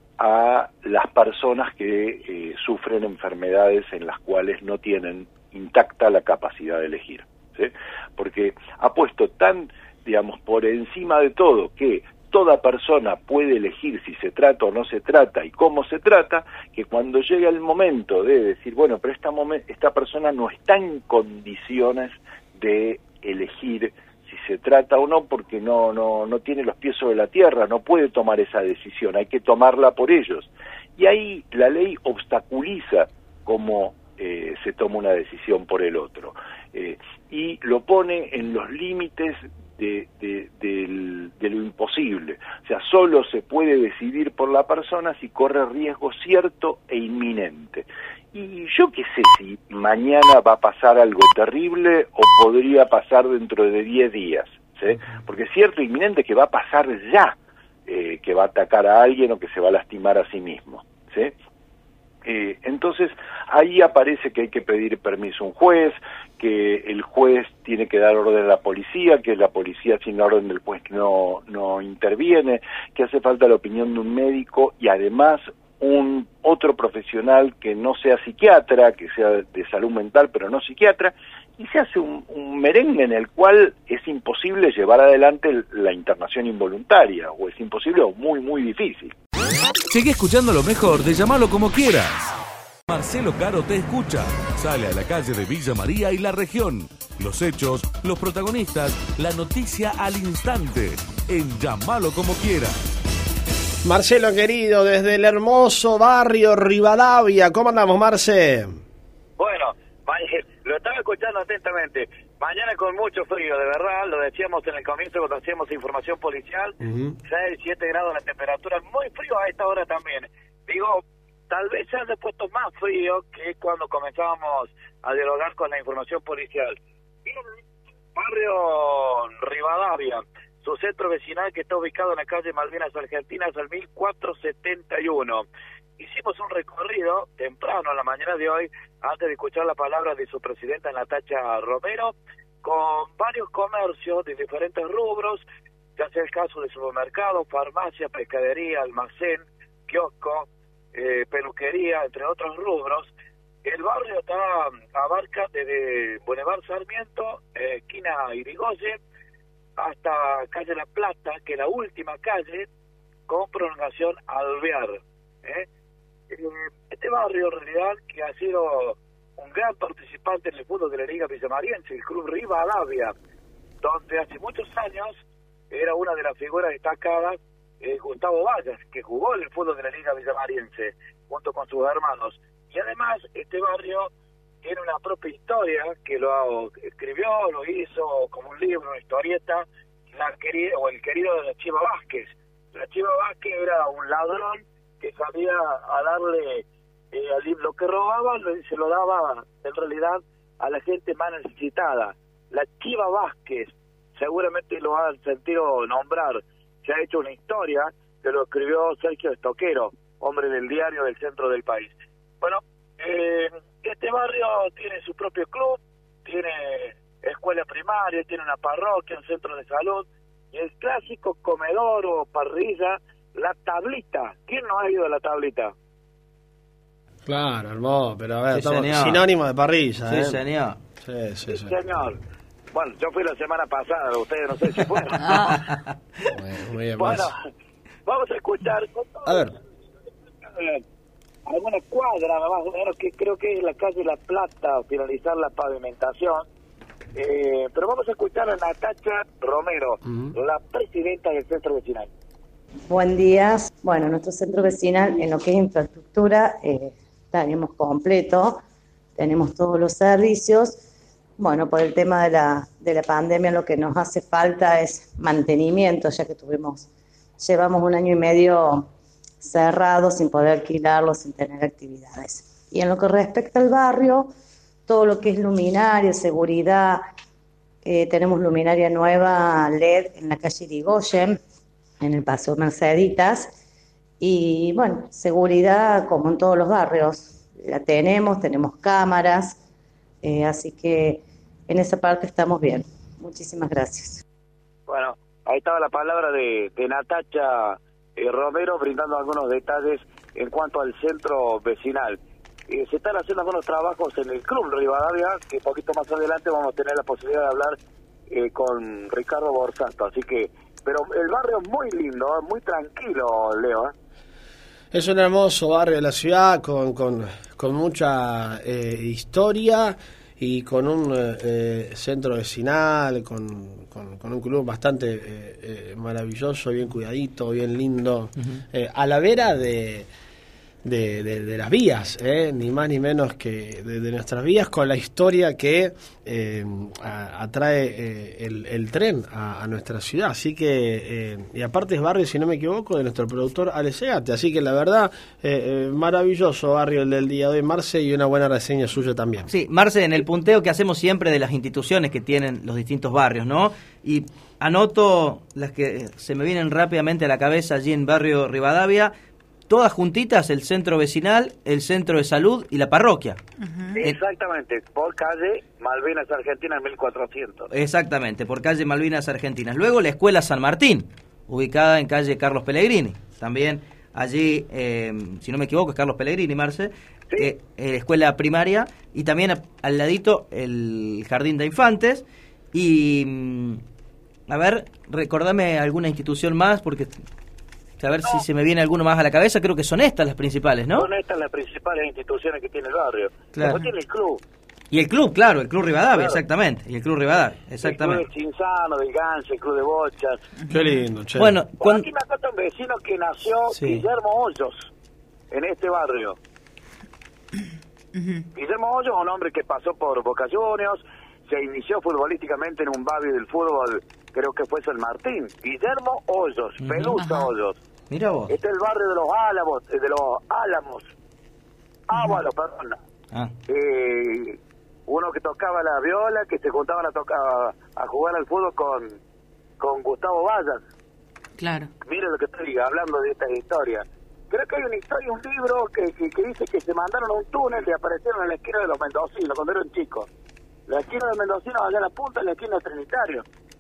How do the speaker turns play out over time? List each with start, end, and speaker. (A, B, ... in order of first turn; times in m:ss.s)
0:00.2-1:01.3 A
1:02.2-1:29.2 A
1:29.9-1:32.3 B
1:32.9-1:42.8 B
1:43.8-1:48.7 C
1:49.4-2:07.6 D
1:56.8-1:57.2 C
2:08.2-2:15.5 D
2:16.0-2:25.4 D
2:26.0-2:33.1 D
2:33.6-2:39.0 D
2:39.8-2:42.7 D
2:43.3-2:45.7 D
2:46.3-2:53.2 D
2:53.8-2:55.2 D
2:55.7-3:04.1 D
3:04.6-3:45.7 D
3:47.3-3:50.4 C
3:48.5-3:49.2 E
3:50.1-3:50.8 E
3:51.0-3:51.9 C
3:51.5-3:52.2 D
3:52.7-3:55.3 D
3:55.3-3:55.5 F
3:56.3-3:57.3 C
3:57.0-3:57.4 D
3:58.1-3:59.6 D
3:59.3-3:59.5 C
4:00.4-4:00.8 D
4:01.5-4:06.5 D
4:07.2-4:12.1 D
4:12.9-4:18.6 G
4:19.2-4:20.8 G
4:21.4-4:26.9 G
4:27.4-4:28.9 G
4:29.4-4:34.3 G
4:34.9-4:37.0 G
4:37.8-4:41.4 G
4:42.0-4:43.5 G
4:44.2-4:49.6 G
4:50.2-4:54.2 G
4:54.9-5:07.8 D
5:08.3-5:13.9 D
5:14.9-5:30.1 C
5:30.8-5:49.5 C
5:49.5-5:59.1 E
5:59.7-6:03.4 E
6:03.6-6:04.0 F
6:04.0-6:07.7 D
6:07.7-6:23.8 E
6:24.5-6:27.2 E
6:28.0-6:31.1 E
6:30.9-6:34.4 D
6:33.5-6:33.9 E
6:34.9-6:38.2 E
6:36.1-6:36.4 D
6:37.8-6:40.5 D
6:40.6-6:41.0 F
6:40.7-6:41.6 C
6:41.4-6:42.0 E
6:41.8-6:44.9 D
6:43.7-6:44.0 E
6:45.5-6:46.4 D
6:48.2-6:48.4 F
6:48.6-6:57.8 D
6:56.8-6:57.2 E
6:57.2-6:57.5 F
6:58.1-6:58.5 E
6:58.5-7:01.1 D
7:02.1-7:03.0 D
7:02.1-7:02.4 F
7:03.7-7:09.2 D
7:09.8-7:10.8 D
7:11.6-7:11.9 F
7:12.0-7:20.3 D
7:20.9-7:23.4 D